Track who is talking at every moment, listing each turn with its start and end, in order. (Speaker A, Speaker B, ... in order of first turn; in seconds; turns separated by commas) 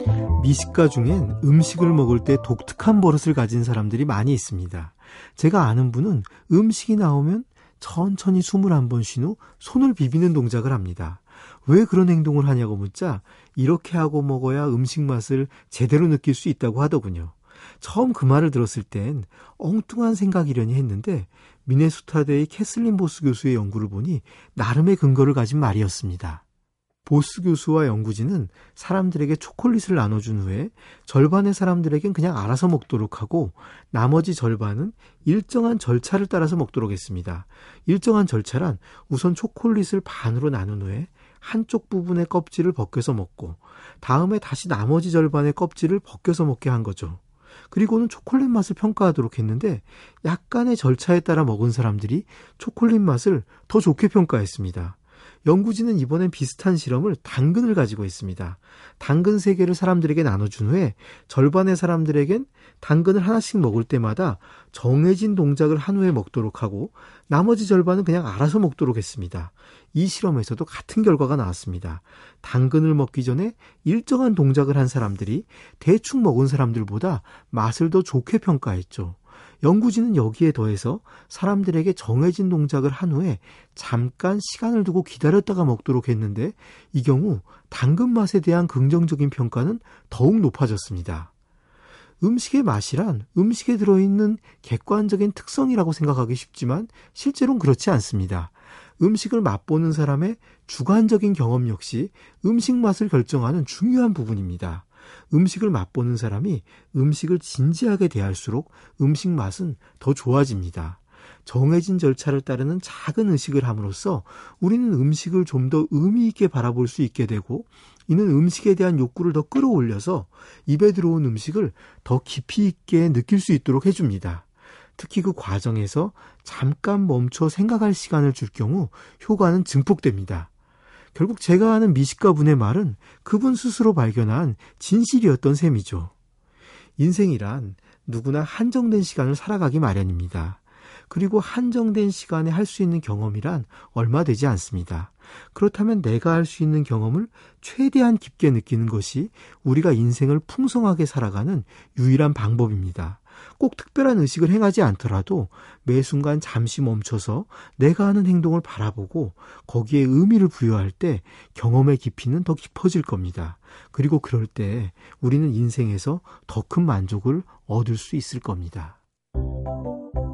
Speaker A: 0.4-26.4, Speaker A: 27.0-91.3, Speaker A: 92.2-130.5, Speaker A: 131.1-136.1, Speaker A: 137.0-169.0